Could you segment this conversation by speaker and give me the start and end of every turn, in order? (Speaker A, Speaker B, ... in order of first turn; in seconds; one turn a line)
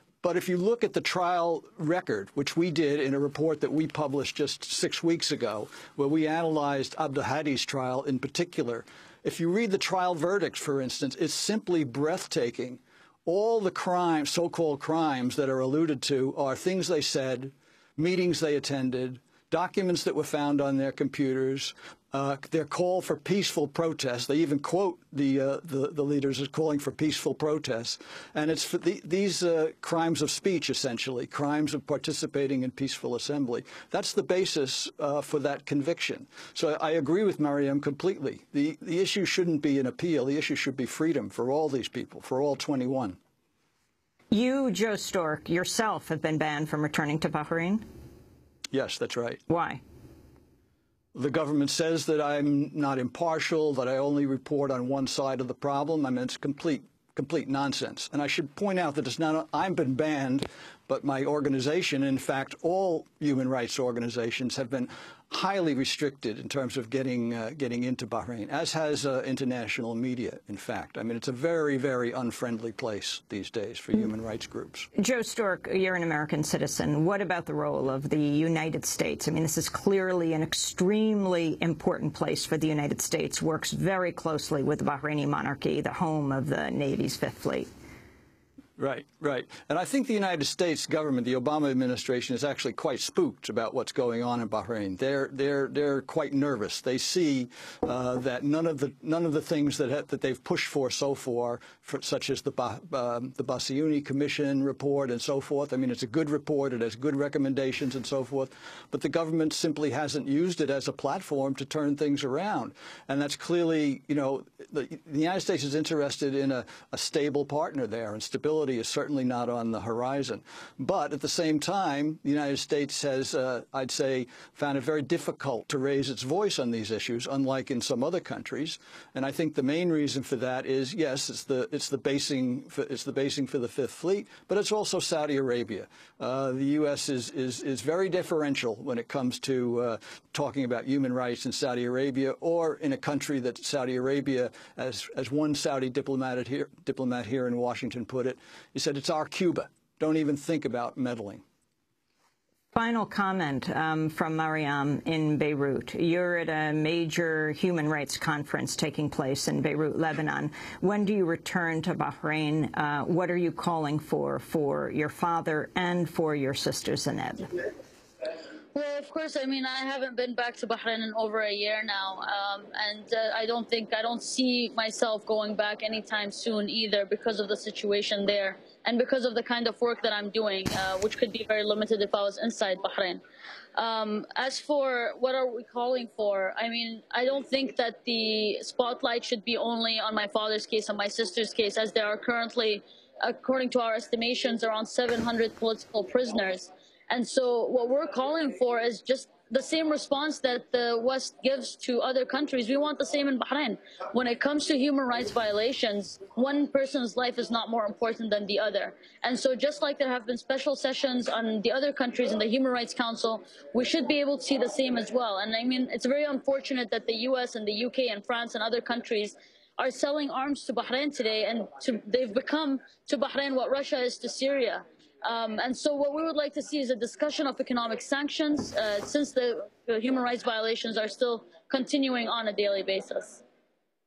Speaker A: 0.2-43.2
Speaker B: 44.3-47.8
Speaker A: 48.7-49.4
Speaker B: 49.5-49.8
Speaker A: 51.1-74.9
Speaker B: 75.0-87.7
Speaker A: 88.8-151.4
Speaker B: 152.7-167.5
Speaker C: 168.7-183.2
Speaker C: 183.7-233.4